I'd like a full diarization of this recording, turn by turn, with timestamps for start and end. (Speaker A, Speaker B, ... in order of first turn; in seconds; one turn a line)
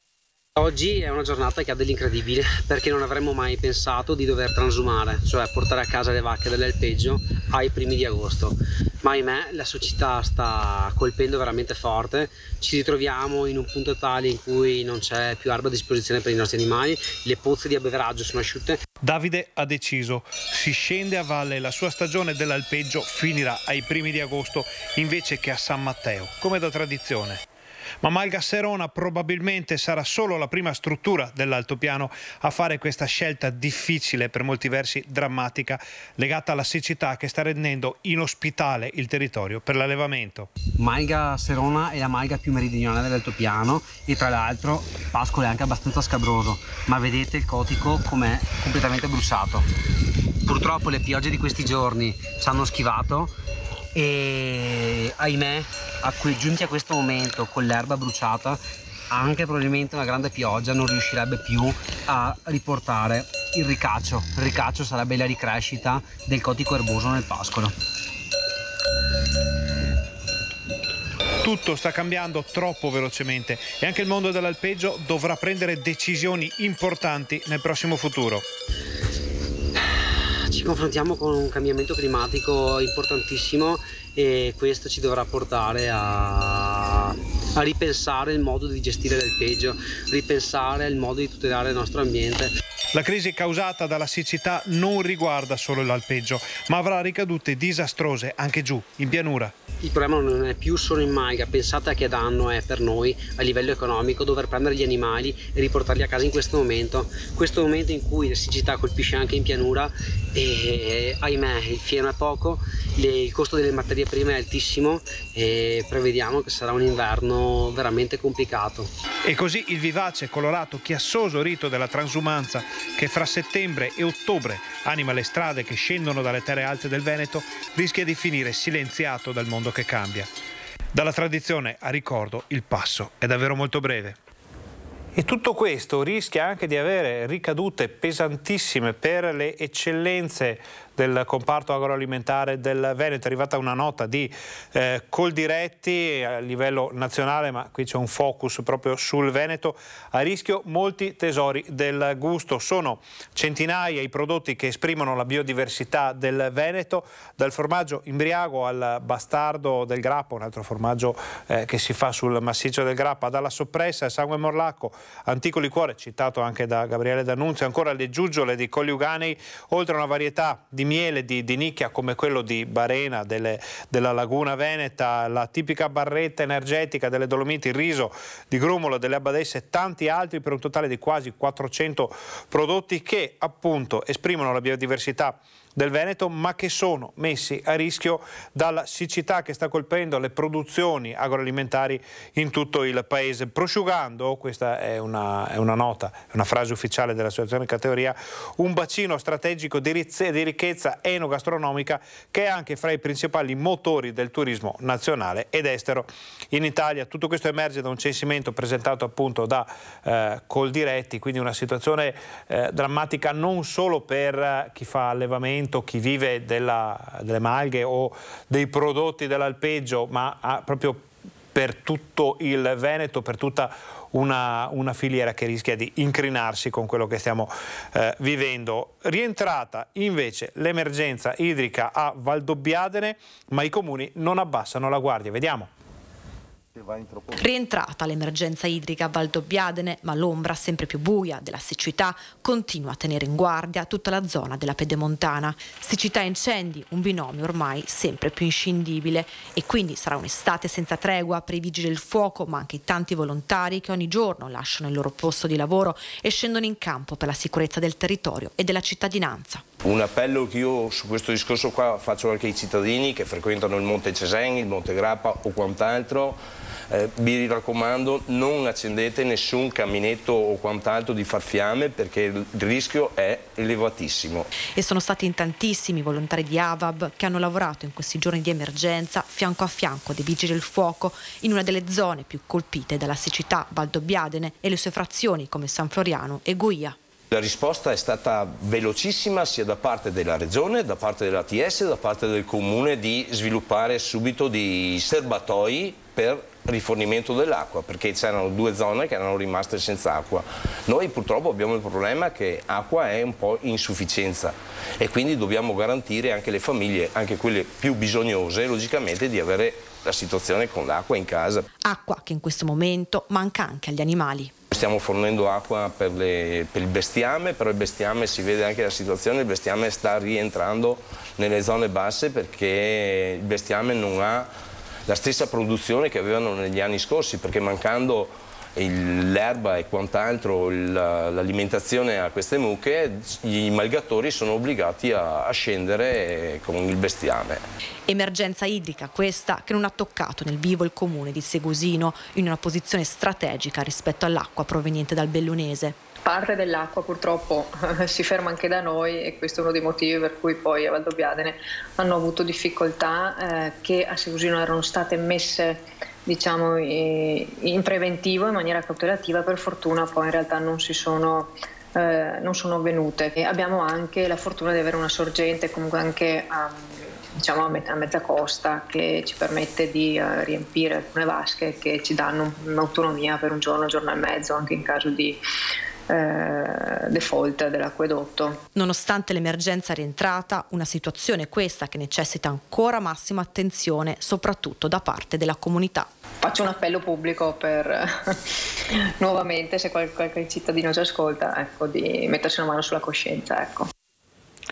Speaker A: 0.6-18.8
Speaker B: 19.0-27.4
Speaker B: 28.0-40.5
Speaker A: 40.8-49.7
Speaker A: 50.5-53.3
Speaker A: 53.9-67.8
Speaker B: 71.4-78.5
Speaker A: 80.4-92.5
Speaker B: 92.9-99.5
Speaker A: 99.8-118.9
Speaker B: 119.2-130.3
Speaker B: 130.9-134.2
Speaker B: 135.2-235.7
Speaker C: 237.4-259.6
Speaker D: 259.8-274.5
Speaker C: 274.7-286.9
Speaker D: 287.3-311.7
Speaker C: 311.8-314.5
Speaker D: 314.7-324.5
Speaker D: 325.1-337.6
Speaker C: 338.1-346.0
Speaker E: 346.3-347.6
Speaker E: 348.1-355.7
Speaker E: 356.4-361.5
Speaker E: 362.1-366.6
Speaker E: 367.4-375.4
Speaker E: 376.2-376.6
Speaker E: 377.2-378.5
Speaker C: 378.8-386.1
Speaker E: 386.5-387.9
Speaker E: 389.3-393.8